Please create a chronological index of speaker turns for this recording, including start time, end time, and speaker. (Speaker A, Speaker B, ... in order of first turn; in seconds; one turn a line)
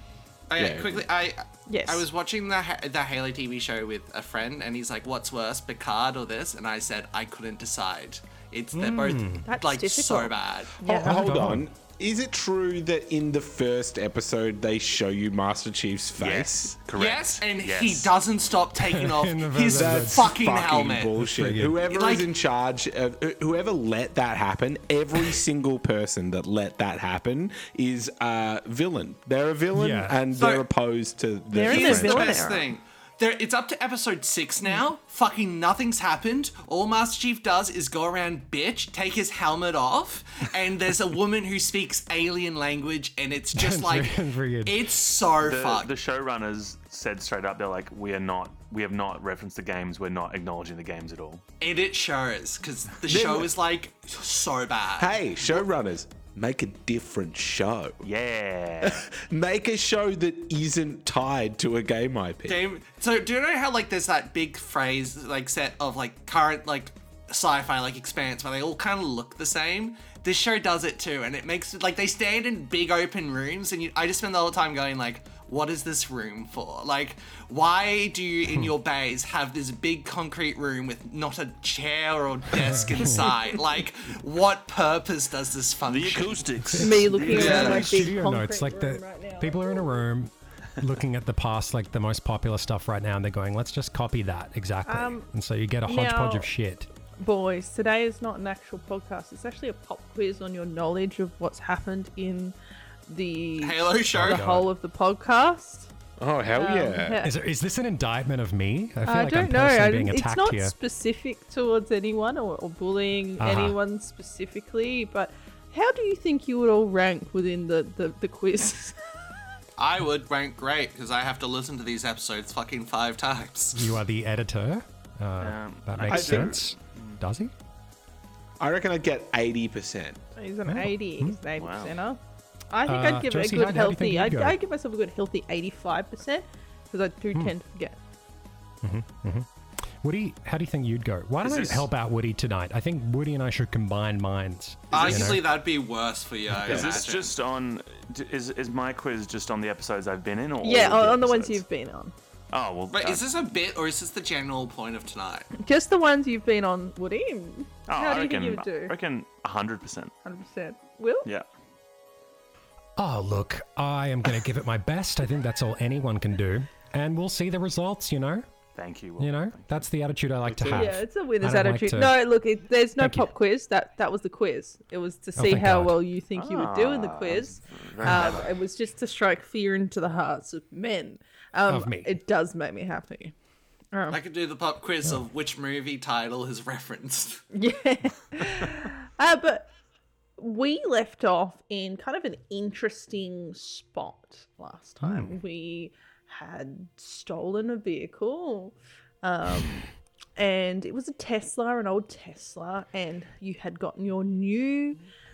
Speaker A: 0.5-10.8
Speaker B: 0.6-1.1
Speaker C: 1.7-2.1
Speaker D: 8.7-9.4
Speaker C: 9.4-11.2
Speaker D: 10.9-11.7
Speaker B: 10.9-16.8
Speaker E: 16.2-18.1
Speaker A: 16.9-21.2
Speaker D: 18.8-20.4
Speaker B: 19.7-32.4
Speaker D: 21.2-21.8
Speaker A: 21.8-22.3
Speaker D: 29.7-30.2
Speaker A: 30.3-30.6
Speaker C: 31.5-32.7
Speaker A: 31.6-45.9
Speaker D: 43.5-44.8
Speaker E: 45.4-51.4
Speaker A: 51.6-55.6
Speaker B: 53.1-53.5
Speaker B: 55.0-58.0
Speaker E: 58.0-59.0
Speaker B: 58.8-62.6
Speaker A: 62.5-86.5
Speaker D: 82.5-83.4
Speaker E: 85.9-88.1
Speaker D: 86.6-96.9
Speaker C: 86.8-90.0
Speaker A: 87.3-88.0
Speaker C: 94.8-95.3
Speaker C: 95.9-96.5
Speaker C: 97.2-102.5
Speaker C: 103.1-105.9
Speaker A: 103.6-104.4
Speaker D: 104.1-104.7
Speaker B: 106.2-107.2
Speaker C: 106.5-107.3
Speaker D: 107.2-110.7
Speaker C: 109.0-119.0
Speaker D: 113.4-113.8
Speaker A: 119.8-123.9
Speaker D: 123.7-127.5
Speaker E: 125.4-127.2
Speaker B: 126.1-126.6
Speaker B: 128.6-130.2
Speaker C: 130.3-132.2
Speaker D: 130.7-131.4
Speaker E: 131.6-131.9
Speaker C: 132.7-138.0
Speaker D: 132.9-134.6
Speaker D: 138.8-139.5
Speaker D: 140.0-145.6
Speaker E: 141.4-141.9
Speaker A: 144.9-147.3
Speaker B: 146.6-147.0
Speaker E: 146.6-151.6
Speaker C: 150.6-152.1
Speaker E: 152.5-153.2
Speaker A: 152.9-155.5
Speaker C: 155.5-158.9
Speaker E: 157.9-160.1
Speaker C: 160.2-161.3
Speaker D: 163.0-168.5
Speaker E: 168.7-169.9
Speaker D: 169.2-172.2
Speaker B: 170.4-170.9
Speaker C: 170.7-183.3
Speaker D: 173.0-173.3
Speaker D: 175.3-176.0
Speaker E: 176.3-178.5
Speaker D: 178.0-178.4
Speaker D: 181.7-182.1
Speaker C: 183.9-184.2
Speaker A: 184.1-187.4
Speaker C: 187.5-189.7
Speaker C: 190.4-205.0
Speaker D: 195.0-195.3